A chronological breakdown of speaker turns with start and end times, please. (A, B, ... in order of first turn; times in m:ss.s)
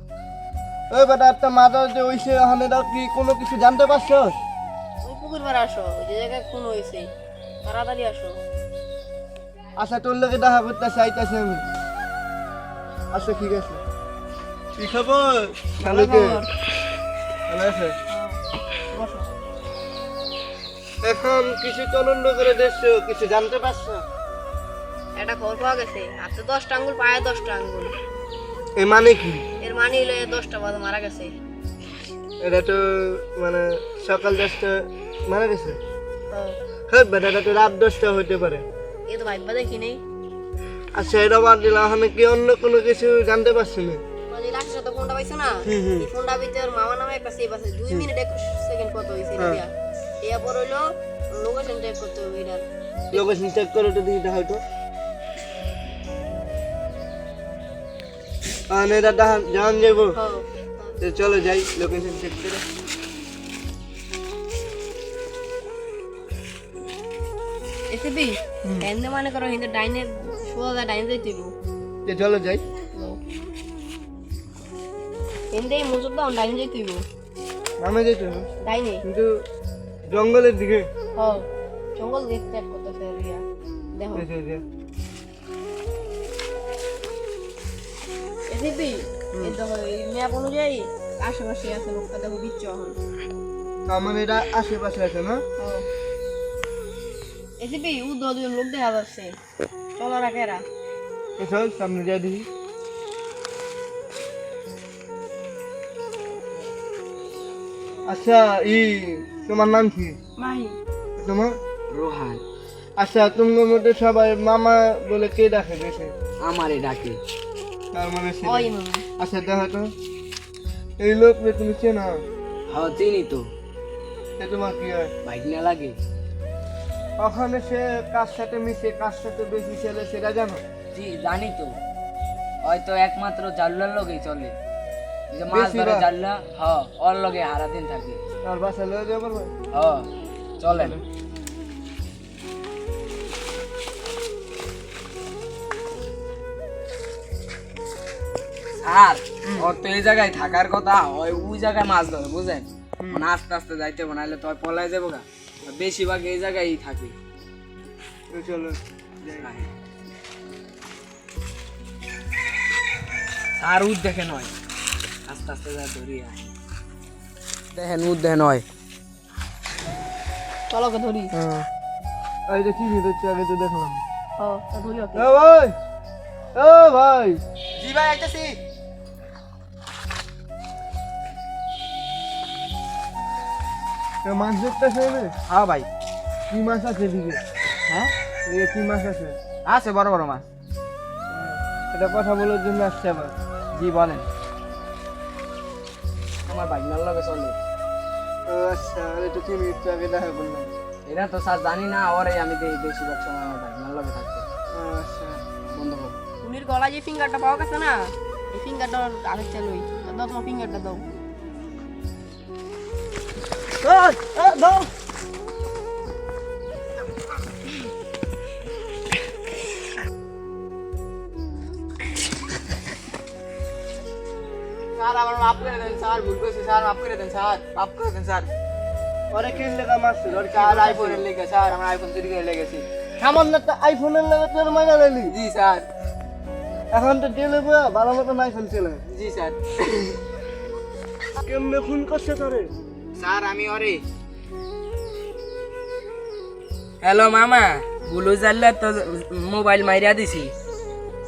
0:00.9-0:04.3 A
0:05.0-0:07.1 B
0:07.6-0:08.4 B
0:09.8-0:11.6 A
0:13.1-0:13.8 A
0:14.8-0:16.4 A
0:15.8-0:16.5 B
0:17.5-0:17.9 A
0:18.1-0:18.4 B
0:18.9-0:19.3 B
0:21.0-0:24.0 A
0:25.2-0:27.9 B
0:28.8-0:29.4 A
0:29.6-0:31.3 B
0:32.4-0:35.8 A
0:36.3-0:36.6 B
0:36.9-0:38.6 A
0:39.1-0:40.0 B
0:40.9-0:44.0 A
0:44.3-0:49.7 B
0:45.7-0:46.1 A
0:50.2-0:52.6 B
0:53.1-0:54.6 A
0:58.7-1:00.1 A
1:00.2-1:00.9 B
1:01.0-1:02.6 A
1:07.9-1:11.5 B
1:12.0-1:12.6 A
1:12.9-1:13.2 B
1:15.5-1:17.0 B
1:17.8-1:18.5 A
1:18.6-1:19.0 B
1:19.0-1:19.3 A
1:20.1-1:20.9 A
1:21.2-1:21.4 B
1:22.0-1:23.4 B
1:24.0-1:24.2 B
1:24.2-1:24.6 A
1:28.5-1:33.0 B
1:33.9-1:35.4 A
1:35.6-1:35.8 B
1:37.6-1:39.4 B
1:40.0-1:40.6 B
1:41.4-1:42.5 A
1:48.1-1:50.2 A
1:50.4-1:50.8 B
1:51.2-1:51.6 A
1:51.9-1:52.4 C
1:53.0-1:56.1 A
1:56.4-1:57.2 C
1:57.9-1:59.9 A
1:58.4-1:59.0 B
2:01.0-2:02.2 A
2:02.7-2:03.5 C
2:04.4-2:05.1 A
2:05.2-2:06.0 C
2:07.2-2:10.6 A
2:10.9-2:11.8 C
2:12.6-2:14.6 C
2:15.3-2:18.2 C
2:15.5-2:16.1 A
2:18.4-2:19.5 A
2:19.7-2:20.1 C
2:20.6-2:21.0 C
2:28.8-2:37.1 C
2:33.0-2:33.2 A
2:38.3-2:39.5 A
2:39.4-2:39.7 C
2:43.6-2:44.5 C
2:45.3-2:46.5 C
2:47.7-2:48.6 C
2:50.7-2:51.3 B
2:51.3-2:51.7 A
2:52.5-2:54.0 A
2:54.4-2:55.3 B
2:55.2-2:55.8 A
2:56.6-2:57.4 A
2:57.8-2:58.6 D
3:04.2-3:05.4 A
3:05.5-3:05.9 D
3:06.5-3:07.4 A
3:08.4-3:09.4 A
3:09.7-3:10.5 D
3:11.3-3:13.3 A
3:13.7-3:14.3 D
3:16.5-3:17.6 C
3:18.5-3:20.7 A
3:21.1-3:24.4 C
3:24.7-3:25.4 A
3:25.7-3:26.2 C
3:26.4-3:31.1 B
3:33.8-3:34.9 A
3:45.0-3:48.5 D
3:49.3-3:51.2 A
3:50.3-3:51.7 C
3:50.8-3:52.8 D
3:53.2-3:55.3 A
3:55.3-3:55.9 C
3:56.9-3:59.0 A
3:59.1-4:00.1 C
4:01.4-4:02.7 A
4:03.2-4:04.0 D
4:07.0-4:10.5 E